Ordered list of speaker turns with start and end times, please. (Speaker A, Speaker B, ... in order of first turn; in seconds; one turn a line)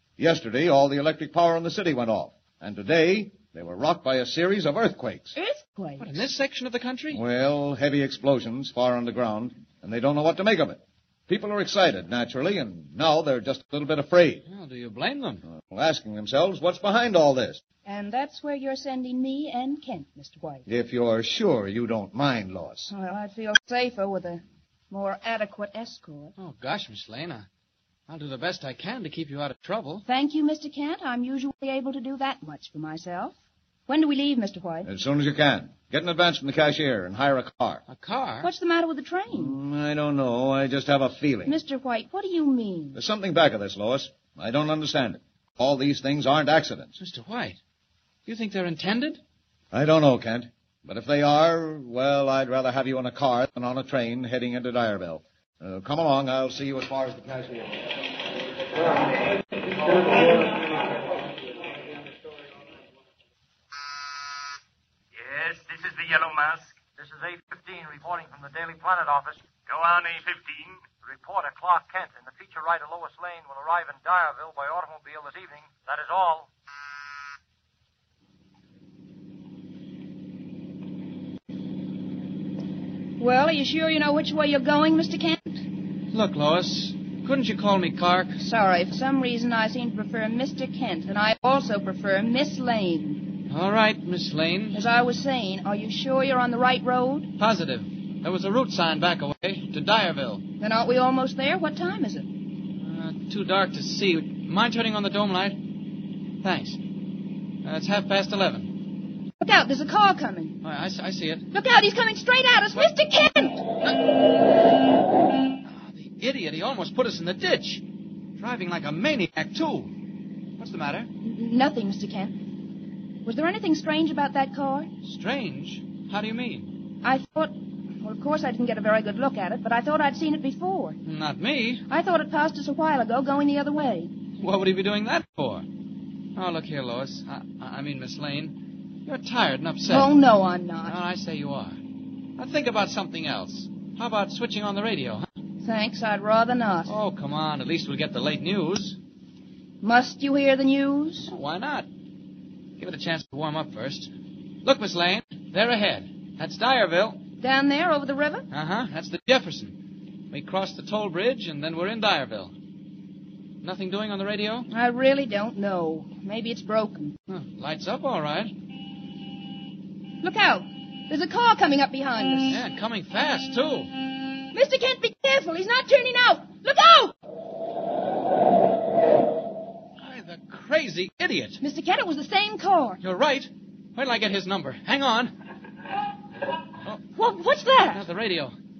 Speaker A: 0.2-5.3
Speaker B: 5.3-6.2
Speaker C: 6.0-7.2
Speaker A: 7.1-14.4
Speaker C: 14.5-15.4
Speaker A: 15.5-17.6
Speaker B: 17.9-20.7
Speaker A: 20.7-22.9
Speaker B: 22.9-26.3
Speaker C: 26.4-27.5
Speaker C: 28.1-30.1
Speaker B: 30.1-33.4
Speaker B: 33.9-34.9
Speaker A: 34.9-37.8
Speaker C: 37.9-38.5
Speaker B: 38.4-39.6
Speaker A: 39.3-41.6
Speaker B: 41.5-43.0
Speaker A: 42.9-46.9
Speaker C: 47.0-47.6
Speaker C: 48.3-49.2
Speaker A: 49.7-57.7
Speaker D: 65.2-66.8
Speaker E: 67.0-69.4
Speaker D: 69.7-70.9
Speaker E: 71.0-76.5
Speaker B: 83.2-85.6
Speaker C: 86.1-88.4
Speaker B: 88.4-93.3
Speaker C: 93.5-94.8
Speaker B: 94.7-97.3
Speaker C: 97.4-100.4
Speaker B: 100.6-102.3
Speaker C: 102.8-105.6
Speaker C: 106.4-106.8
Speaker C: 107.6-108.8
Speaker B: 109.4-110.6
Speaker C: 110.6-111.5
Speaker B: 111.5-113.7
Speaker C: 115.7-117.8
Speaker C: 118.4-119.9
Speaker C: 120.6-121.1
Speaker B: 121.2-122.4
Speaker B: 123.2-124.9
Speaker C: 125.0-126.7
Speaker B: 127.0-131.0
Speaker C: 131.1-131.8
Speaker B: 131.9-134.1
Speaker C: 134.4-135.7
Speaker C: 136.3-140.2
Speaker B: 139.9-141.0
Speaker C: 140.8-141.8
Speaker C: 142.4-145.3
Speaker B: 145.6-146.9
Speaker C: 146.9-149.0
Speaker B: 149.8-151.3
Speaker C: 151.3-151.9
Speaker C: 152.8-154.1
Speaker C: 154.6-157.2
Speaker B: 157.4-158.5
Speaker C: 158.5-159.8
Speaker C: 160.3-162.6
Speaker C: 163.6-164.7
Speaker B: 164.7-167.2
Speaker C: 167.3-168.5
Speaker B: 170.2-172.6
Speaker C: 172.5-173.9
Speaker B: 174.5-177.1
Speaker C: 180.0-181.6
Speaker B: 181.6-183.0
Speaker C: 183.0-185.3
Speaker B: 187.2-188.0
Speaker C: 187.9-188.6